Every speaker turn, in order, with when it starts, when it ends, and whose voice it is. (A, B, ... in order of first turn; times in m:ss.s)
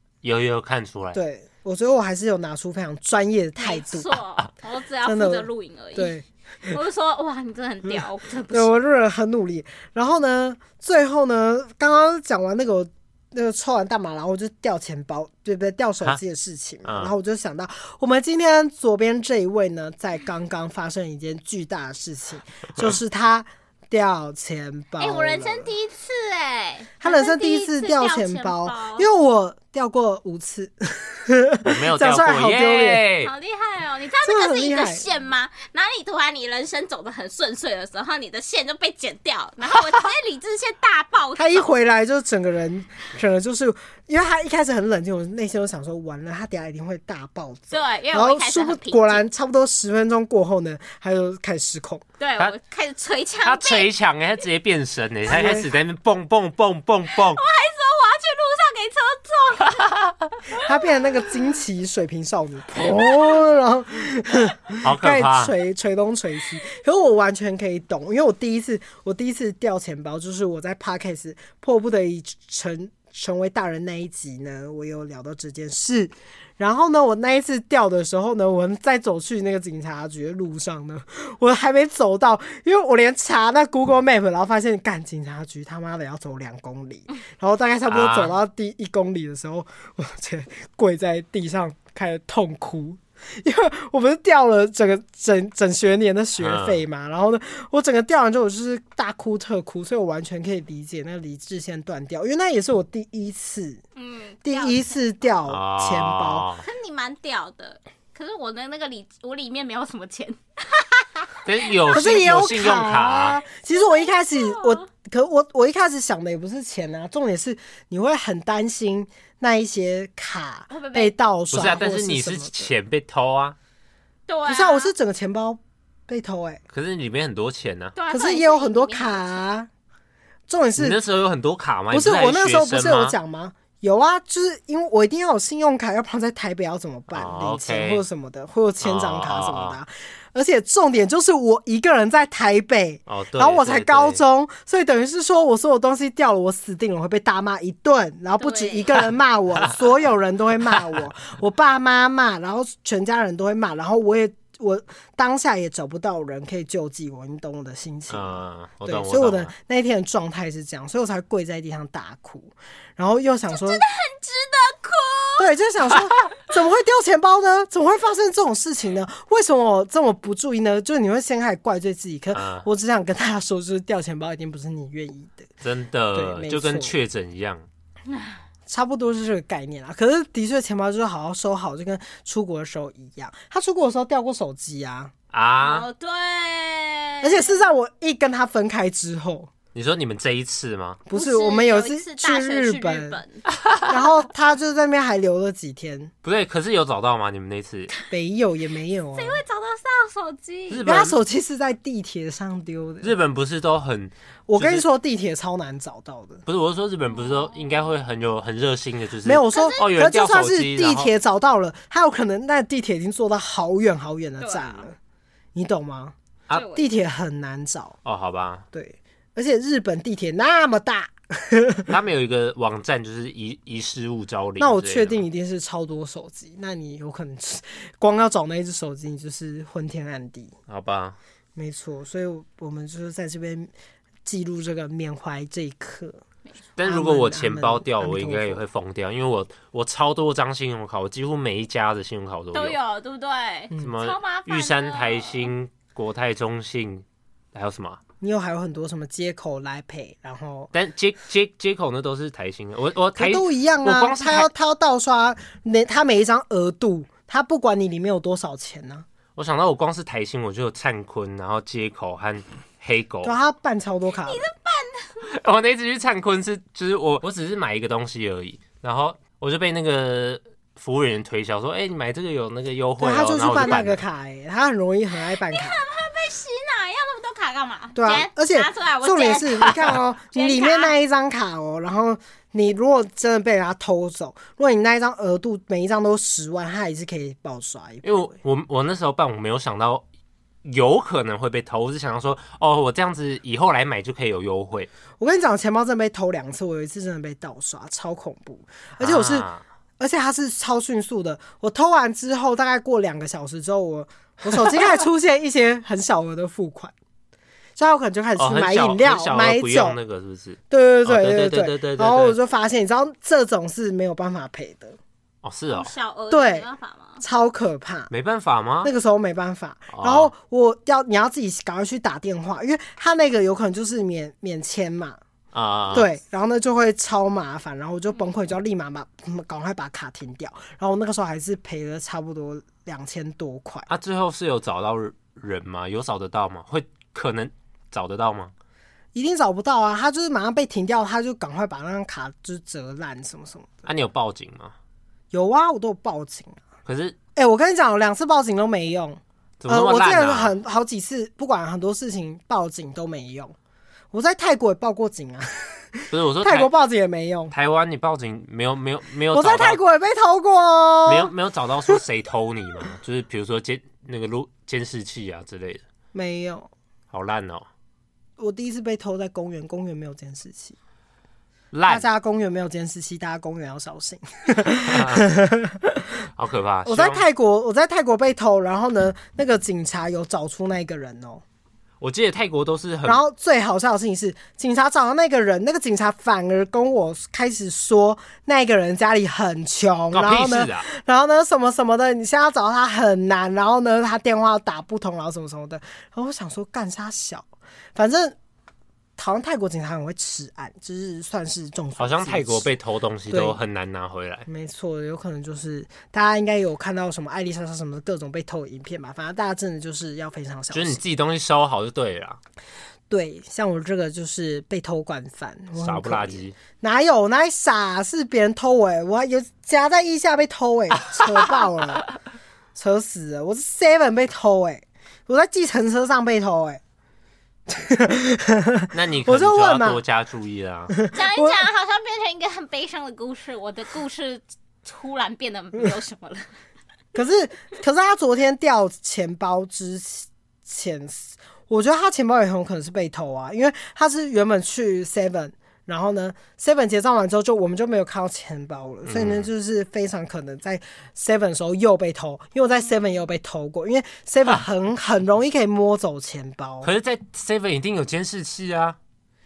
0:00.2-0:01.2 A
0:01.1-0:04.2 B
0:03.6-0:06.2 C
0:05.0-0:06.8 B
0:06.7-0:08.8 C
0:07.9-0:25.7 B
0:16.8-0:17.1 A
0:25.0-0:29.1 C
0:27.0-0:33.0 B
0:31.6-0:33.3 A
0:33.2-0:41.7 C
0:34.2-0:35.1 B
0:41.4-0:52.0 B
0:47.7-0:49.2 C
0:52.2-0:53.9 C
0:53.4-0:57.4 A
0:55.3-0:55.7 B
0:57.1-1:00.1 C
1:00.5-1:43.8 B
1:04.8-1:05.5 A
1:27.9-1:28.4 A
1:36.4-1:36.8 A
1:44.0-1:44.9 C
1:44.4-1:46.5 B
1:45.5-1:46.6 A
1:46.6-1:51.8 C
1:51.4-1:53.4 A
1:51.9-2:02.7 B
1:53.7-1:54.8 C
2:00.7-2:01.1 C
2:01.5-2:03.6 A
2:04.3-2:04.9 C
2:04.5-2:06.6 B
2:06.7-2:08.0 A
2:08.0-2:09.4 C
2:08.1-2:09.7 B
2:10.5-2:11.0 B
2:10.8-2:13.2 A
2:11.9-2:43.8 B
2:17.1-2:18.0 A
2:18.8-2:19.8 A
2:23.1-2:24.2 A
2:28.4-2:28.9 C
2:38.1-2:39.5 A
2:43.5-2:45.5 C
2:45.4-2:55.5 B
2:52.3-2:52.7 A
2:55.6-2:57.6 A
2:56.1-2:56.9 B
2:58.1-2:58.4 C
2:58.7-3:05.1 B
3:05.3-3:05.9 A
3:05.6-3:07.6 C
3:07.2-3:09.5 B
3:09.8-3:11.0 A
3:11.1-3:13.2 B
3:11.1-3:13.4 C
3:13.9-3:16.1 B
3:16.2-3:17.9 A
3:18.1-3:19.4 B
3:19.2-3:20.9 C
3:20.7-3:21.2 A
3:20.8-3:23.1 B
3:23.0-3:24.8 A
3:24.5-3:26.4 B
3:26.5-3:31.1 A
3:27.2-3:27.6 C
3:29.2-3:35.0 B
3:34.4-3:34.9 C
3:35.5-3:36.1 B
3:36.5-3:36.8 C
3:36.7-3:38.0 B
3:38.0-3:38.6 A
3:38.7-3:41.9 B
3:41.9-3:45.2 A
3:44.6-3:50.5 B
3:50.7-3:51.2 A
3:51.6-3:53.7 B
3:54.2-3:56.2 B
3:56.8-4:02.8 A
3:56.8-3:58.6 B
4:02.5-4:05.5 C
4:03.8-4:08.0 A
4:08.2-4:10.7 B
4:10.7-4:14.5 A
4:13.2-4:19.0 B
4:19.4-4:23.4 A
4:23.2-4:24.5 B
4:24.2-4:25.2 C
4:25.2-4:34.0 A
4:33.0-4:35.8 B
4:35.3-4:40.9 C
4:37.9-4:48.4 B
4:48.0-4:50.0 A
4:50.6-4:54.9 A
4:55.2-4:59.5 B
4:59.0-4:59.6 A
5:00.0-5:06.9 B
5:07.8-5:10.0 B
5:08.4-5:12.4 A
5:10.7-5:15.0 B
5:15.4-5:15.9 A
5:15.7-5:17.2 C
5:16.3-5:16.7 B
5:17.2-5:18.1 B
5:18.1-5:18.9 A
5:18.8-5:25.2 B
5:19.9-5:20.3 A
5:25.5-5:26.1 A
5:25.9-5:33.9 B
5:33.9-5:38.5 A
5:39.1-5:43.8 B
5:43.8-5:44.8 A
5:45.3-5:46.6 B
5:46.8-5:47.2 A
5:47.4-5:53.6 B
5:49.6-5:50.5 A
5:54.1-5:57.5 B
5:56.1-5:56.7 A
5:57.5-5:59.8 A
5:59.3-6:01.3 B
6:01.1-6:05.8 A
6:06.1-6:06.7 B
6:07.1-6:07.6 A
6:08.4-6:10.8 B
6:11.7-6:12.1 A
6:11.9-6:16.0 B
6:14.7-6:15.3 A
6:16.4-6:17.2 A
6:16.8-6:21.4 B
6:22.0-6:23.2 A
6:23.1-6:38.4 B
6:30.1-6:30.8 A
6:39.2-6:42.8 B
6:42.0-6:44.5 A
6:43.3-6:43.6 B
6:44.5-6:51.0 B
6:50.7-6:52.4 A
6:53.1-7:02.1 B
6:55.8-6:56.6 A
7:02.8-7:06.8 B
7:07.7-7:10.0 B
7:08.9-7:10.9 A
7:10.9-7:11.6 B
7:11.1-7:16.5 C
7:17.1-7:36.9 B
7:29.1-7:29.5 A
7:36.8-7:39.0 A